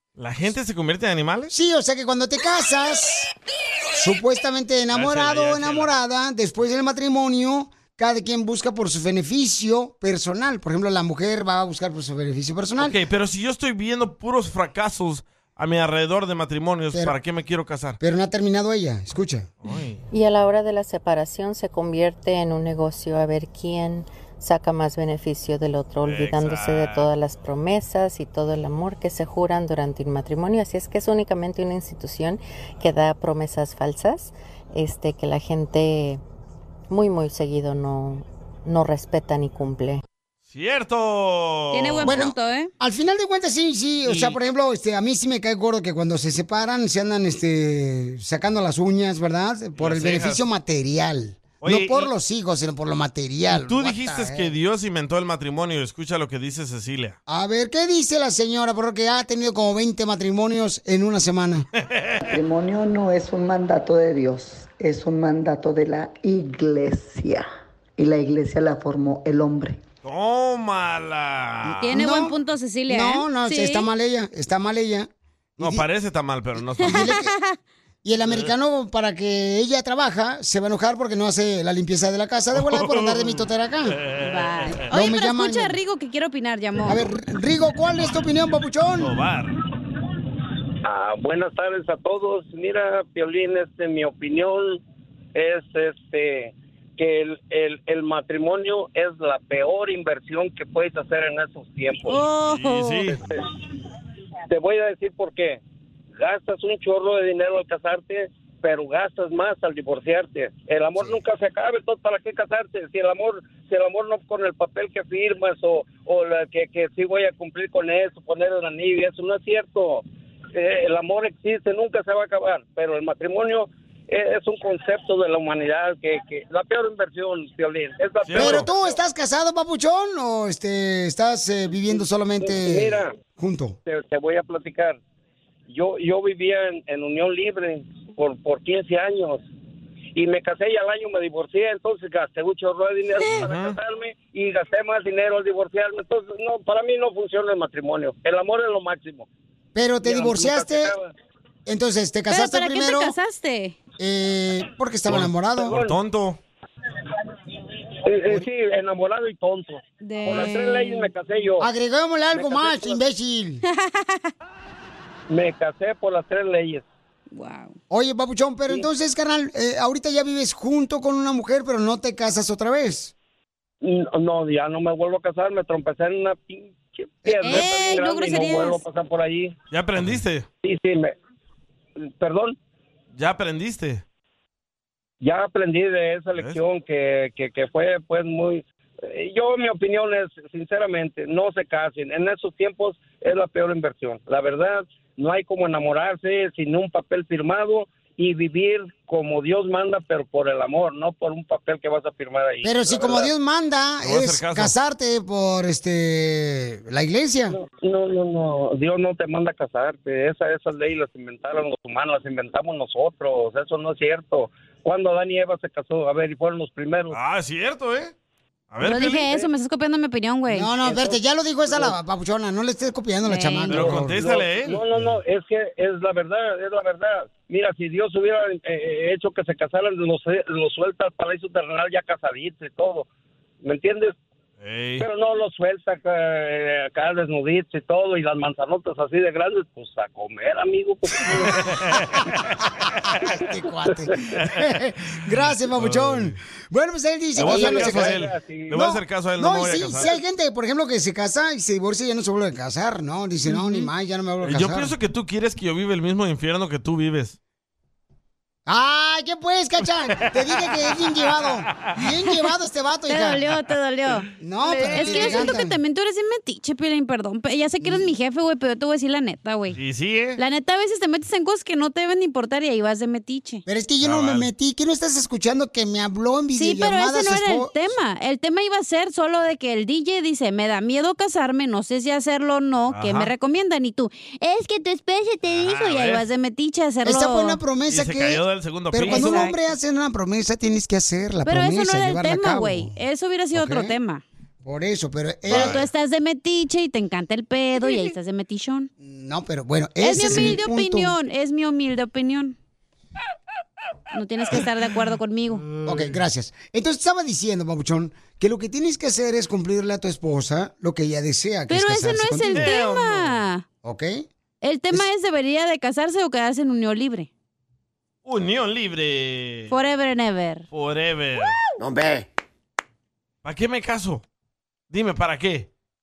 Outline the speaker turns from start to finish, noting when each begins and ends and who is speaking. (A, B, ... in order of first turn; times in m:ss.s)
0:00.2-0:01.5 A
0:01.5-0:03.3 B
0:04.0-0:13.0 B
0:04.9-0:05.9 A
0:12.8-0:18.0 A
0:18.0-0:19.5 B
0:19.6-0:20.0 A
0:20.1-0:36.2 C
0:26.0-0:27.1 A
0:36.9-0:40.0 C
0:40.5-0:42.2 A
0:41.7-0:42.7 D
0:42.0-0:54.5 B
0:44.0-0:44.4 A
0:49.8-0:50.4 A
0:51.6-0:52.1 A
0:53.5-0:57.2 A
0:57.3-1:01.6 B
1:01.9-1:02.2 A
1:02.3-1:09.8 E
1:10.0-1:11.8 A
1:11.6-1:12.3 B
1:11.8-1:13.9 D
1:12.9-1:15.8 B
1:15.6-1:17.1 A
1:16.8-1:17.3 B
1:17.0-1:17.6 D
1:18.0-1:24.0 B
1:22.5-1:24.7 A
1:24.2-1:27.0 D
1:24.9-1:25.8 B
1:26.8-1:29.1 B
1:29.0-1:29.6 A
1:30.8-1:34.8 F
1:35.3-1:42.2 F
1:42.1-1:43.1 D
1:42.4-1:43.2 A
1:43.1-1:43.4 F
1:44.5-1:45.6 F
1:46.1-2:08.9 F
2:08.2-2:08.7 A
2:08.4-2:13.8 B
2:11.9-2:13.1 F
2:13.8-2:15.0 F
2:15.7-2:19.4 F
2:20.1-2:29.3 F
2:23.3-2:23.8 A
2:29.7-2:30.9 B
2:30.0-2:31.1 F
2:31.6-2:33.1 B
2:32.3-2:33.8 D
2:34.0-2:35.7 B
2:35.1-2:36.4 A
2:35.6-2:35.9 F
2:38.0-2:41.7 F
2:40.0-2:41.1 D
2:41.6-2:43.6 B
2:42.3-2:43.0 F
2:43.7-2:44.3 D
2:45.3-2:46.8 F
2:47.3-2:47.8 D
2:47.9-2:53.1 B
2:53.8-2:59.5 F
2:57.2-2:57.6 B
2:57.4-2:58.8 D
2:59.7-3:00.4 A
3:00.6-3:01.1 F
3:02.0-3:02.5 F
3:03.1-3:04.0 A
3:05.2-3:23.3 F
3:22.6-3:27.5 B
3:24.0-3:24.7 A
3:27.5-3:37.2 F
3:37.1-3:38.1 A
3:38.7-3:39.3 A
3:38.8-3:40.7 D
3:40.5-3:44.2 B
3:40.8-3:41.9 F
3:43.2-3:43.8 D
3:43.7-3:44.8 A
3:44.2-3:53.0 F
3:53.6-3:54.1 F
3:54.6-3:55.0 A
3:55.0-4:01.5 F
4:01.5-4:02.5 A
4:03.2-4:08.2 B
4:05.7-4:06.4 A
4:07.4-4:10.1 A
4:07.4-4:08.7 F
4:08.7-4:14.9 B
4:13.5-4:13.8 D
4:14.4-4:17.4 A
4:18.7-4:23.4 B
4:20.2-4:20.6 A
4:23.1-4:29.8 D
4:24.4-4:25.7 B
4:25.0-4:25.4 A
4:27.8-4:28.1 B
4:29.7-4:30.4 A
4:30.4-4:33.6 D
4:33.6-4:37.9 B
4:34.0-4:34.5 A
4:36.5-4:47.6 D
4:42.9-4:43.3 A
4:45.4-4:46.2 A
4:47.0-4:53.0 B
4:47.9-4:49.5 A
4:49.1-4:49.5 D
4:51.4-4:54.2 D
4:53.5-4:53.9 B
4:54.6-4:55.8 B
4:55.5-4:55.8 A
4:55.5-4:58.9 D
4:59.0-5:01.1 B
5:00.0-5:02.5 D
5:04.1-5:05.6 D
5:05.6-5:06.1 A
5:05.8-5:12.7 B
5:11.7-5:13.6 D
5:12.5-5:13.4 A
5:13.8-5:14.2 B
5:14.6-5:17.3 D
5:18.2-5:19.7 A
5:19.7-5:20.6 D
5:20.7-5:21.6 A
5:23.4-5:24.2 A
5:24.9-5:25.7 A